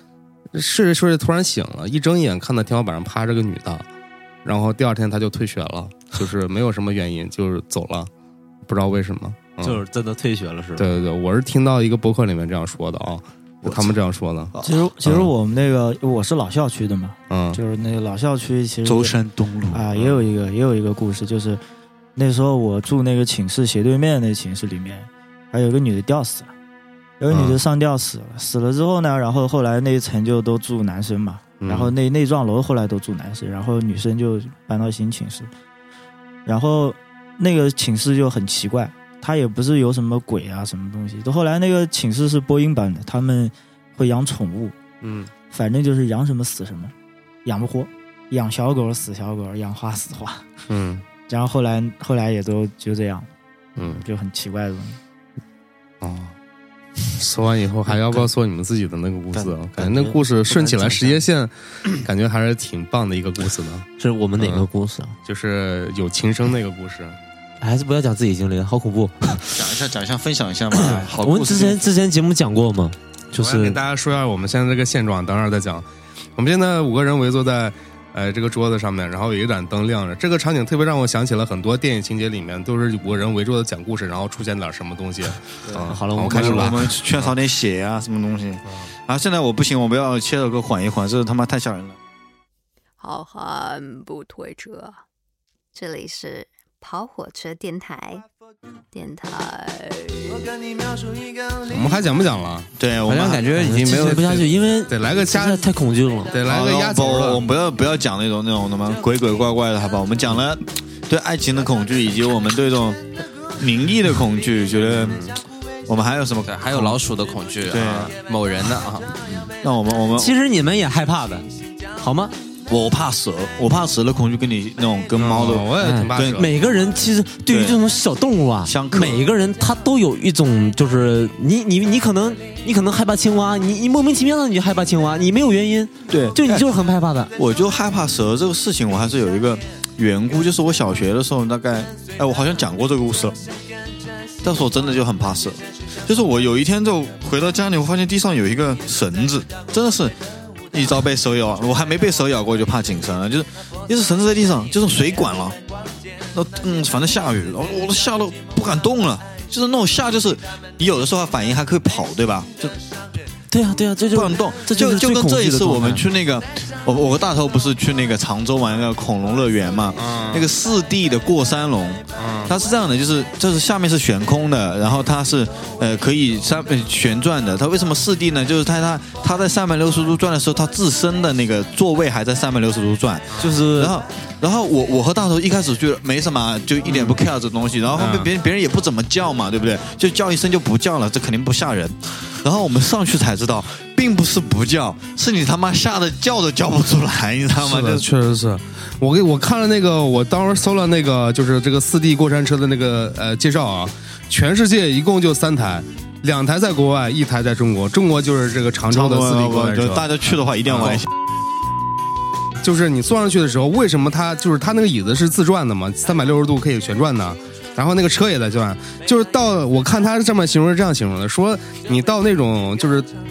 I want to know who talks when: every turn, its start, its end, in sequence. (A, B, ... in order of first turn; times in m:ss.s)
0:00.5-0:03.8 A
0:04.4-0:08.1 A
0:08.6-0:09.8 A
0:09.6-0:10.8 B
0:10.8-0:14.5 A
0:13.6-0:14.0 C
0:14.5-0:14.8 C
0:14.6-0:19.2 D
0:15.0-0:15.3 A
0:17.3-0:17.6 A
0:18.8-0:19.8 C
0:19.7-0:21.6 D
0:20.0-0:20.2 A
0:22.2-0:26.5 D
0:27.2-0:35.5 D
0:27.3-0:27.6 A
0:31.6-0:31.9 A
0:36.4-0:44.8 D
0:45.0-0:45.3 A
0:45.5-0:46.9 D
0:47.4-0:50.4 D
0:50.7-0:51.0 A
0:51.3-0:55.0 D
0:53.8-0:54.0 A
0:56.0-0:56.3 A
0:57.1-1:03.9 A
0:57.9-0:58.3 B
0:59.4-1:01.2 B
1:04.0-1:05.2 B
1:04.4-1:04.7 A
1:05.2-1:07.2 A
1:07.6-1:09.6 B
1:09.5-1:11.9 C
1:10.7-1:13.8 B
1:13.4-1:15.8 A
1:16.4-1:27.3 A
1:25.7-1:26.9 B
1:26.3-1:32.0 C
1:33.0-1:35.0 E
1:35.7-1:38.2 E
1:38.9-1:40.5 E
1:41.7-1:42.7 A
1:42.8-1:43.5 C
1:43.0-1:44.5 F
1:43.5-1:46.4 B
1:44.9-1:45.7 A
1:46.3-1:47.4 A
1:46.4-1:53.0 C
1:53.6-1:55.3 C
1:54.9-1:55.4 A
1:55.9-1:57.0 C
1:56.5-1:59.2 F
1:57.7-1:58.1 C
1:59.6-2:00.4 C
2:00.1-2:01.5 B
2:02.0-2:02.3 B
2:02.7-2:06.4 C
2:05.2-2:06.5 A
2:05.8-2:17.3 B
2:07.5-2:07.8 C
2:08.6-2:09.2 C
2:16.1-2:16.7 C
2:17.4-2:23.4 C
2:24.4-2:30.2 C
2:30.7-2:35.6 C
2:36.3-2:42.8 C
2:43.5-2:46.0 B
2:44.1-3:18.0 C
2:50.0-2:50.4 A
2:52.2-2:52.5 A
3:03.4-3:03.9 B
3:08.0-3:08.3 A
3:17.6-3:30.1 A
3:28.9-3:31.1 C
3:30.7-3:31.0 A
3:32.6-3:43.1 A